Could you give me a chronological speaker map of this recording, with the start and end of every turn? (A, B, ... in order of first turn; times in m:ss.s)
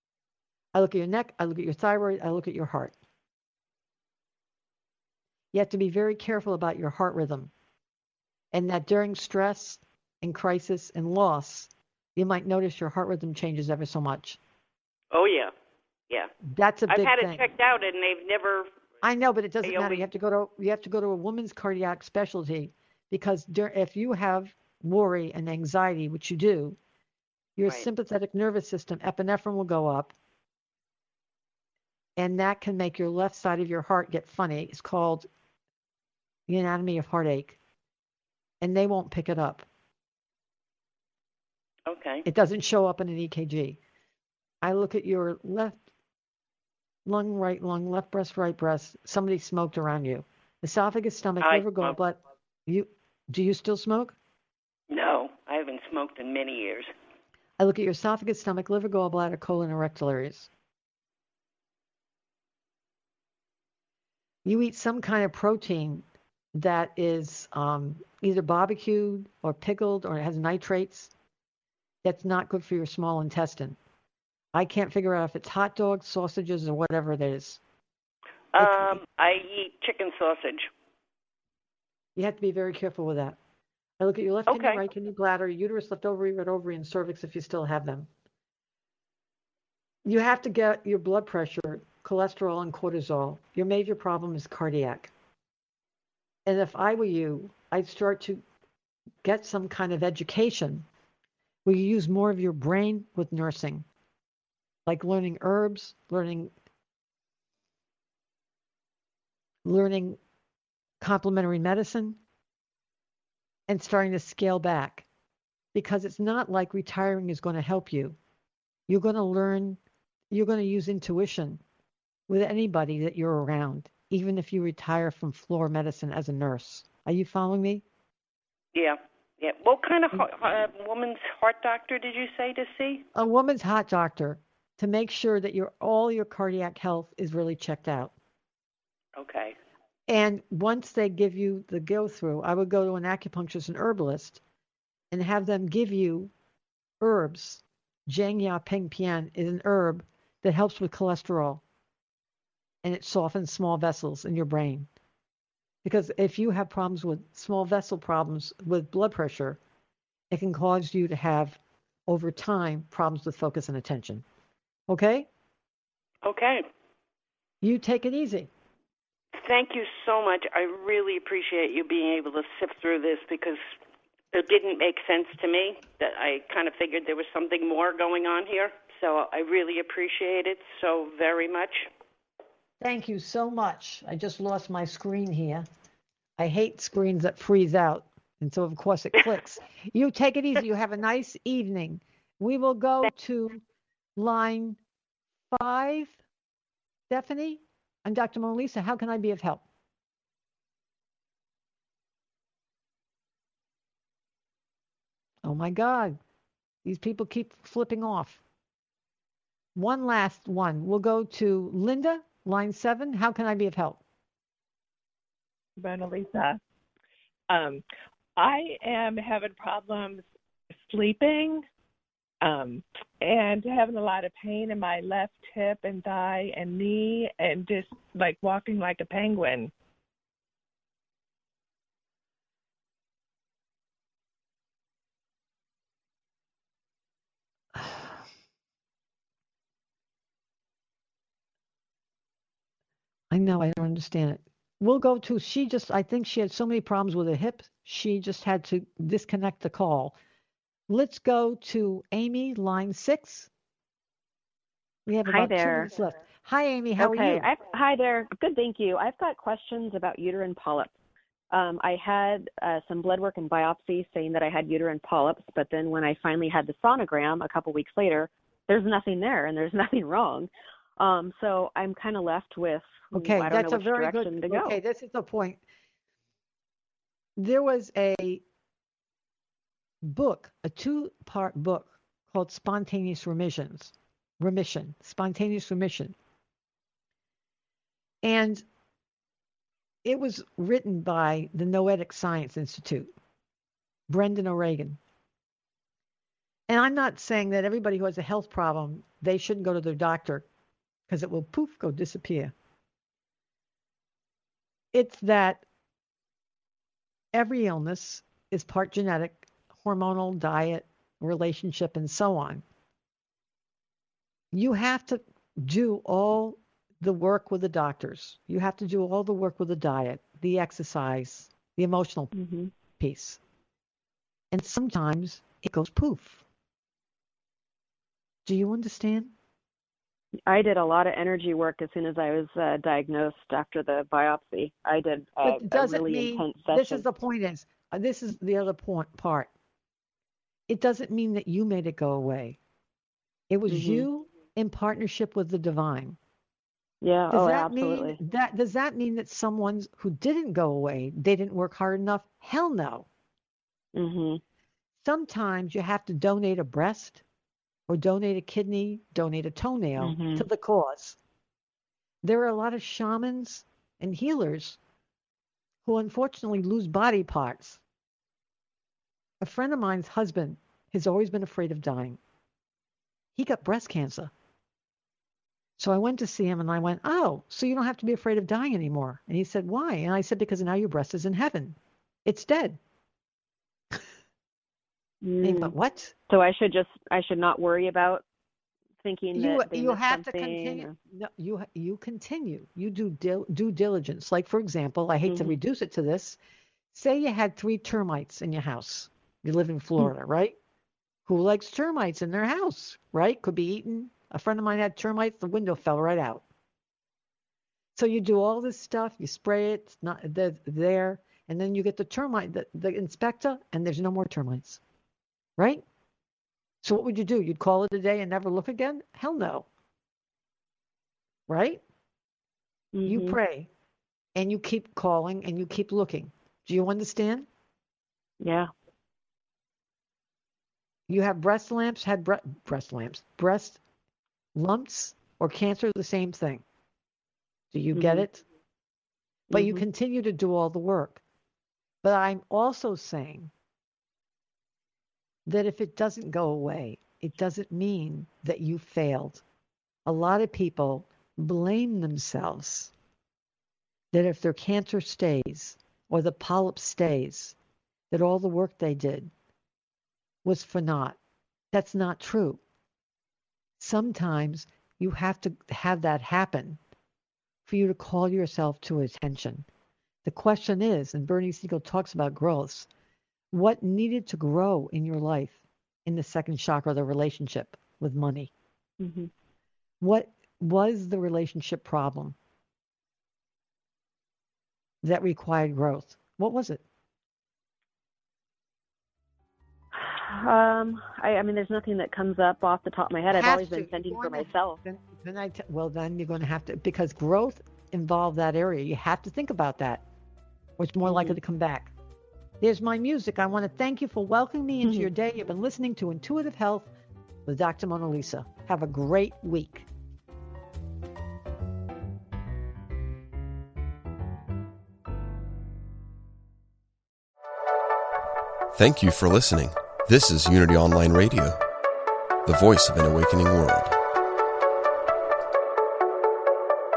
0:00.7-0:02.9 A
0:05.5-0:07.5 A
0:08.5-0:14.4 A
0:15.1-0:15.5 B
0:16.4-0:17.4 A
0:16.9-0:18.7 B
0:19.0-0:26.8 A
0:19.6-0:20.0 B
0:27.6-0:30.1 A
0:32.2-0:35.3 A
0:36.5-0:37.6 A
0:38.6-0:39.7 A
0:41.9-0:42.2 B
0:42.2-0:43.8 A
0:44.6-0:45.8 A
0:47.1-0:54.2 A
0:51.4-0:52.0 B
0:54.9-0:56.9 B
0:57.6-1:00.5 A
1:04.4-1:11.1 A
1:12.0-1:13.8 A
1:14.5-1:17.6 A
1:18.5-1:20.7 B
1:18.6-1:19.0 A
1:22.2-1:23.4 A
1:24.0-1:28.1 A
1:24.5-1:24.8 B
1:30.0-1:35.1 A
1:36.5-1:38.4 A
1:39.2-1:40.9 A
1:41.6-1:43.9 A
1:44.9-1:46.5 A
1:49.6-1:50.2 A
1:51.0-1:52.2 A
1:53.7-1:55.1 A
1:55.8-1:58.2 A
1:58.9-1:59.8 A
2:00.3-2:01.6 A
2:02.3-2:07.8 A
2:08.7-2:13.0 B
2:13.2-2:18.1 A
2:19.2-2:19.6 B
2:20.1-2:24.4 A
2:25.1-2:26.3 A
2:27.0-2:31.6 A
2:32.8-2:34.9 A
2:35.8-2:39.6 A
2:40.3-2:44.2 A
2:44.9-2:45.3 A
2:46.2-2:46.6 B
2:47.6-2:48.5 A
2:49.4-2:53.6 B
2:54.3-3:01.9 B
3:02.8-3:05.7 A
3:06.4-3:13.6 A
3:14.2-3:14.8 A
3:15.5-3:16.2 A
3:17.1-3:19.6 A
3:25.4-3:26.2 A
3:26.8-3:28.4 A
3:29.8-3:34.0 A
3:35.8-3:36.6 C
3:37.5-3:37.8 C
3:38.4-3:40.3 C
3:40.8-3:41.6 C
3:42.4-3:49.7 C
3:57.8-3:58.0 A
4:03.3-4:10.2 A
4:10.9-4:13.5 A
4:15.1-4:17.4 A
4:15.2-4:15.9 D
4:17.0-4:20.9 D
4:21.5-4:34.8 D
4:33.2-4:35.6 A
4:37.4-4:38.4 A
4:40.0-4:46.2 A
4:48.2-4:48.6 A
4:50.0-4:53.1 A
4:54.1-4:55.0 A
4:56.7-5:00.4 A
5:01.1-5:02.5 A
5:04.9-5:05.6 A
5:07.3-5:12.6 A
5:14.5-5:22.3 A
5:22.3-5:22.7 D
5:23.0-5:23.4 A
5:24.5-5:26.4 A
5:28.4-5:29.3 A
5:30.5-5:37.1 D
5:35.4-5:39.5 A
5:40.7-5:42.6 A
5:43.5-5:46.2 A
5:43.7-5:44.1 D
5:47.0-5:48.2 D
5:47.3-5:53.1 A
5:54.0-5:54.4 D
5:55.0-5:57.2 A
5:57.9-6:01.2 A
6:00.0-6:00.5 D
6:02.2-6:04.8 A
6:05.8-6:07.8 A
6:09.4-6:12.2 A
6:13.4-6:14.3 A
6:15.8-6:22.8 A
6:25.2-6:25.8 D
6:25.4-6:26.1 A
6:26.3-6:28.2 D
6:29.0-6:31.0 D
6:29.4-6:36.4 A
6:35.3-6:35.6 D
6:36.9-6:40.6 A
6:41.3-6:46.4 A
6:48.0-6:54.8 A
6:55.6-6:55.8 A
6:56.8-6:59.7 A
7:01.5-7:01.8 A
7:02.9-7:03.4 D
7:03.1-7:03.7 A
7:04.4-7:07.5 A
7:08.4-7:08.7 D
7:11.1-7:13.8 A
7:14.6-7:16.6 A
7:17.7-7:18.4 A
7:17.9-7:18.3 D
7:19.5-7:19.8 D
7:19.5-7:21.2 A
7:22.0-7:23.5 A
7:25.5-7:29.4 A
7:30.1-7:32.9 A
7:34.1-7:37.6 A
7:38.1-7:39.3 A
7:40.4-7:41.2 A
7:41.7-7:42.6 A
7:43.8-7:46.8 A
7:47.7-7:49.7 A
7:50.2-7:52.9 A
7:53.5-7:58.5 A
7:59.0-7:59.3 D
8:00.0-8:02.4 A
8:05.0-8:06.8 A
8:09.9-8:14.8 D
8:13.3-8:20.0 A
8:20.8-8:21.9 A
8:21.0-8:21.4 D
8:22.6-8:26.9 A
8:24.8-8:25.1 D
8:27.5-8:29.9 A
8:38.7-8:41.6 E
8:42.5-8:44.0 E